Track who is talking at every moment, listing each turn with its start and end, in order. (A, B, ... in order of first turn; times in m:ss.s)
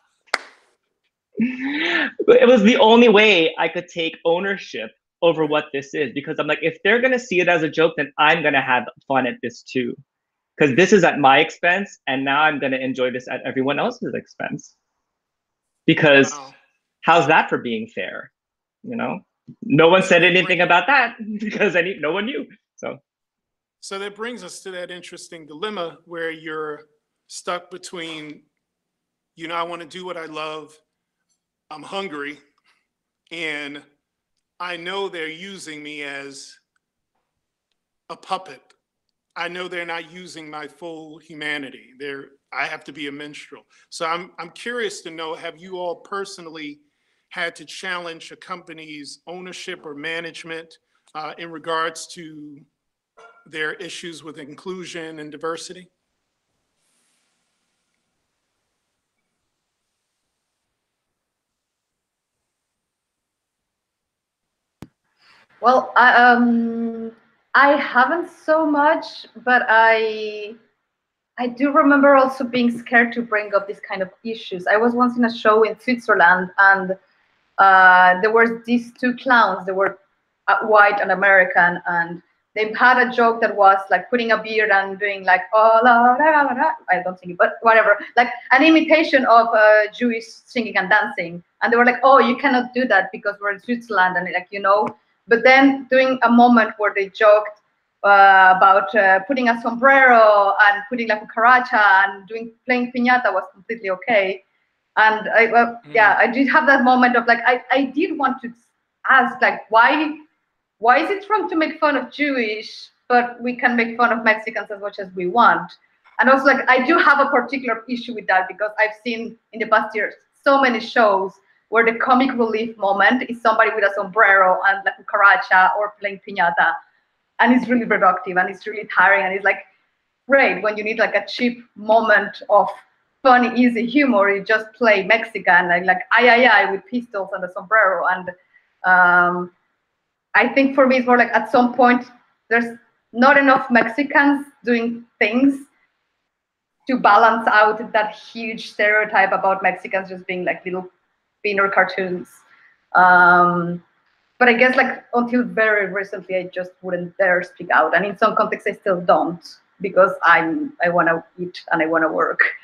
0:01.4-0:10.0 A
0:10.6-0:14.7 A
0:15.9-0:16.4 A
0:16.2-0:16.6 B
0:17.0-0:18.3 A
0:18.8-0:23.0 A
0:20.1-0:20.6 B
0:23.8-0:28.4 B
0:29.4-0:30.8 B
0:31.7-0:32.4 B
0:33.3-0:33.8 B
0:34.6-0:36.6 B
0:38.1-0:38.8 B
0:39.4-0:52.6 B
0:53.5-0:55.9 B
1:05.6-1:10.6 C
1:11.4-1:17.0 C
1:17.6-1:44.4 C
1:45.0-1:50.2 C
1:45.9-1:46.2 B
1:50.8-2:06.8 C
2:07.4-2:09.6 C
2:10.3-2:18.3 C
2:18.8-2:19.5 C
2:20.4-2:25.7 C
2:26.9-2:30.9 C
2:31.4-2:32.4 C
2:32.9-2:33.8 C
2:34.4-2:42.5 C